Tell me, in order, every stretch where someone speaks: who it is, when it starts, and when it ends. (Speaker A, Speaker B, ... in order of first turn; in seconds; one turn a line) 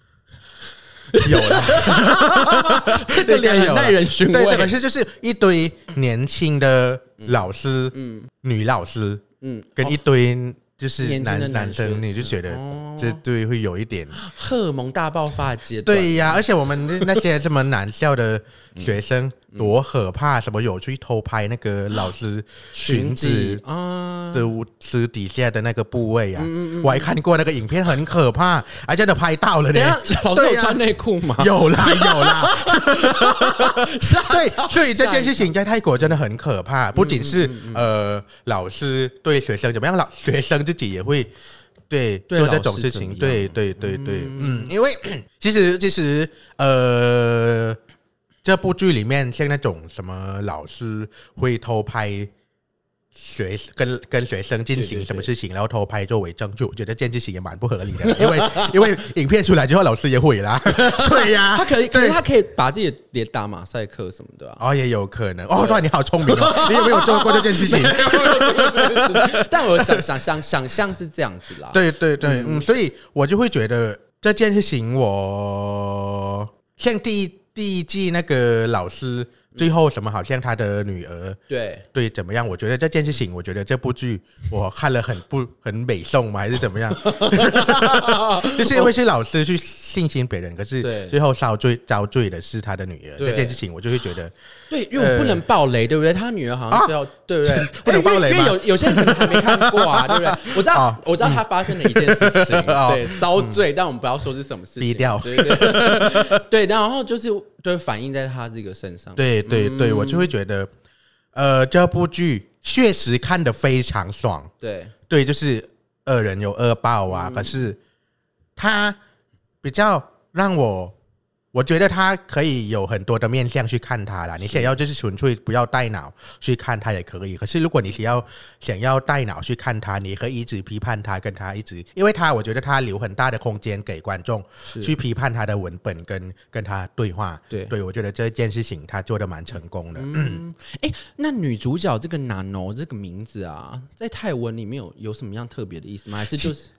Speaker A: 1.1-4.8
Speaker B: 1.2-9.2
Speaker A: 7.2-8.3
Speaker A: 9.4-10.0
Speaker B: 9.8-14.2
Speaker A: 11.0-13.2
Speaker A: 14.2-17.1
Speaker B: 15.8-23.6
Speaker A: 22.7-24.5
Speaker B: 24.3-30.8
Speaker A: 26.4-27.1
Speaker A: 29.7-35.5
Speaker B: 31.4-41.3
Speaker A: 37.0-37.9
Speaker B: 41.9-47.8
Speaker A: 42.3-44.7
Speaker B: 48.4-52.3
Speaker B: 53.1-62.2
Speaker A: 54.8-55.3
Speaker A: 58.1-58.9
Speaker A: 60.7-64.6
Speaker B: 64.6-70.1
Speaker A: 65.5-72.7
Speaker B: 71.7-81.4
Speaker A: 81.5-81.8
Speaker B: 81.9-94.3
Speaker A: 87.0-88.9
Speaker A: 90.8-91.2
Speaker A: 93.2-93.6
Speaker A: 94.7-110.3
Speaker B: 94.9-95.4
Speaker B: 96.7-103.6
Speaker B: 104.8-106.4
Speaker B: 109.2-110.7
Speaker B: 111.3-114.5
Speaker A: 114.6-114.9
Speaker B: 115.1-117.8
Speaker A: 117.1-117.6
Speaker B: 118.6-119.0
Speaker B: 119.6-120.9
Speaker B: 121.5-140.4
Speaker A: 134.7-134.9
Speaker A: 139.9-146.7